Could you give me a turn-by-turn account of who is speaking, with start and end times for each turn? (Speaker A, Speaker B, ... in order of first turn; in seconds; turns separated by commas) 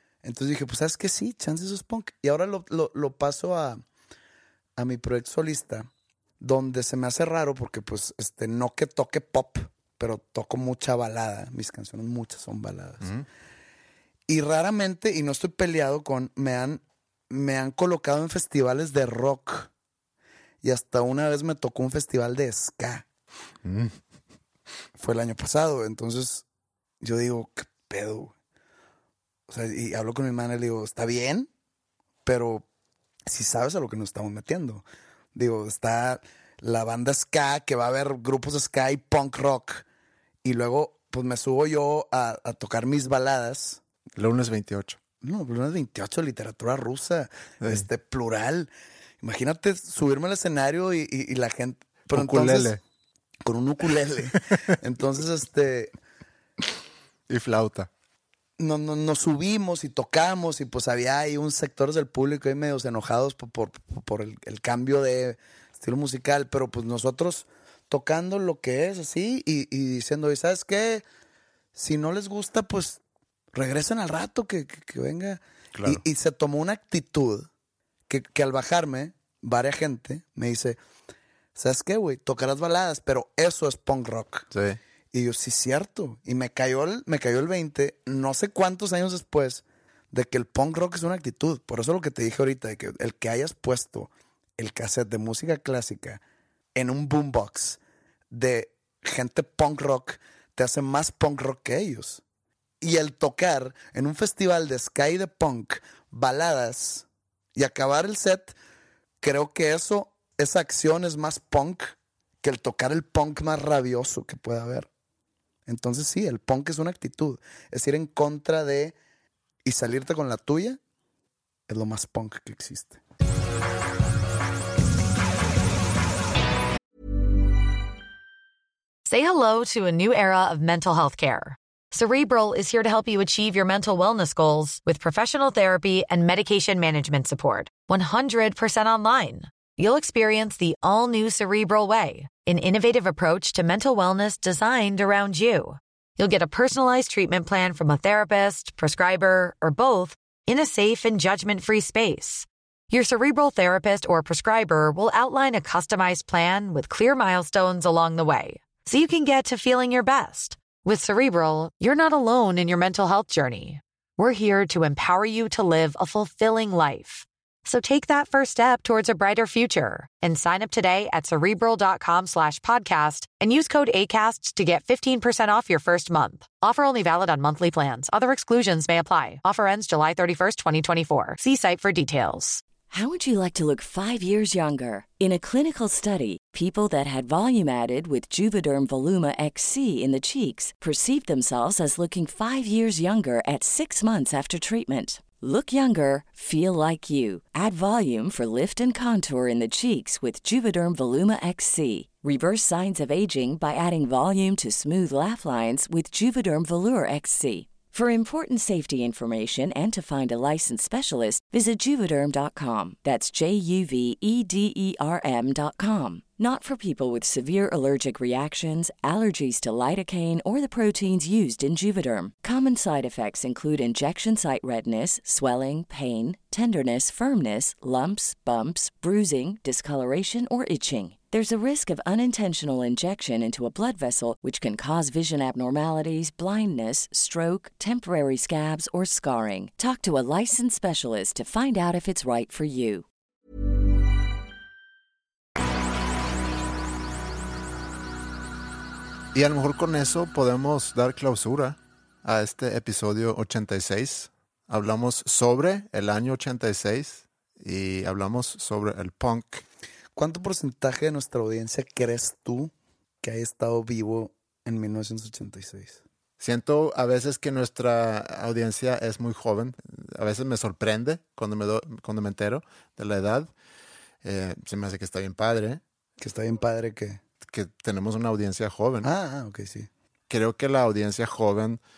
Speaker A: 0.2-3.8, Speaker A: 4.8-13.2, Speaker A: 14.3-19.7, Speaker A: 20.6-23.1, Speaker B: 23.6-24.0, Speaker A: 25.0-26.4, Speaker A: 27.0-28.3, Speaker A: 29.5-31.5, Speaker A: 32.2-32.7, Speaker A: 33.3-39.9, Speaker A: 40.4-43.8, Speaker B: 44.1-45.0, Speaker A: 45.2-48.7, Speaker A: 49.2-52.8, Speaker B: 52.1-52.8, Speaker A: 53.4-55.9, Speaker B: 57.3-57.9, Speaker A: 58.6-71.0, Speaker A: 71.8-73.0, Speaker A: 73.5-77.5, Speaker B: 75.8-76.0, Speaker A: 78.1-80.8, Speaker A: 81.5-84.5, Speaker B: 84.5-84.8, Speaker A: 85.1-96.2, Speaker A: 96.8-97.8, Speaker A: 98.3-102.2, Speaker A: 102.8-108.5, Speaker A: 109.2-114.9, Speaker A: 115.7-119.0, Speaker A: 119.7-120.8, Speaker A: 121.7-123.0, Speaker C: 129.1-182.6, Speaker D: 182.9-243.1, Speaker B: 249.3-259.6, Speaker A: 260.2-266.0, Speaker B: 266.4-273.5, Speaker B: 274.2-275.8, Speaker A: 276.2-277.2, Speaker B: 277.4-279.1, Speaker A: 279.0-279.9, Speaker B: 280.3-281.8